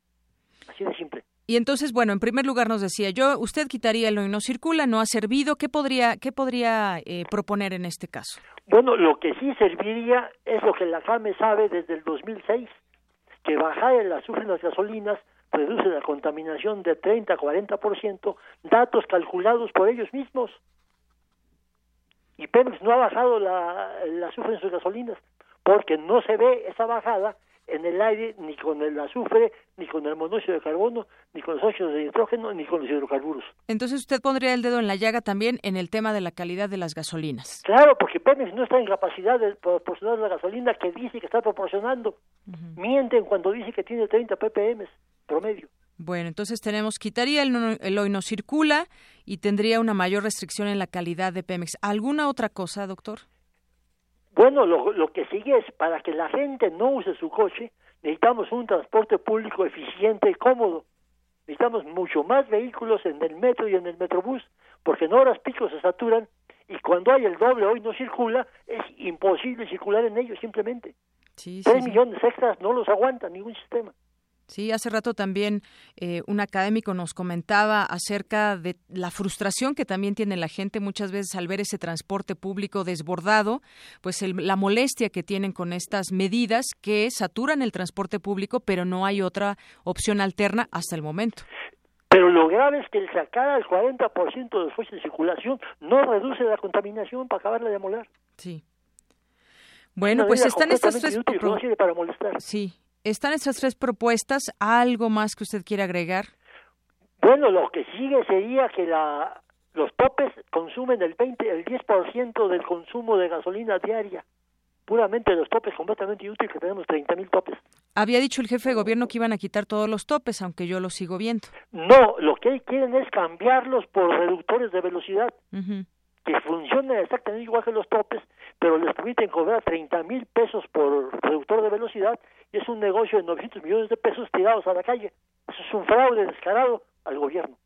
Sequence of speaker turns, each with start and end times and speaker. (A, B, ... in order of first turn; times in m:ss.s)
0:00.7-0:01.2 A
0:01.5-0:08.4 B
0:08.7-0:12.7 A
0:13.4-0:20.6 A
0:22.4-0:33.5 A
0:33.7-0:37.6 B
0:37.6-0:42.2 A
0:42.5-0:42.8 B
0:42.8-0:45.7 A
0:46.0-0:53.2 B
0:54.3-1:00.8 A
1:01.5-1:10.9 A
1:11.4-1:12.0 B
1:11.6-1:13.9 A
1:14.5-1:31.5 B
1:32.1-1:38.1 A
1:38.4-1:38.6 B
1:40.0-1:41.6 B
1:40.0-1:42.4 A
1:42.4-1:46.3 B
1:47.2-1:54.2 A
1:54.9-1:57.6 A
1:58.0-2:01.5 B
2:01.7-2:05.4 A
2:05.5-2:05.9 B
2:06.3-2:17.6 A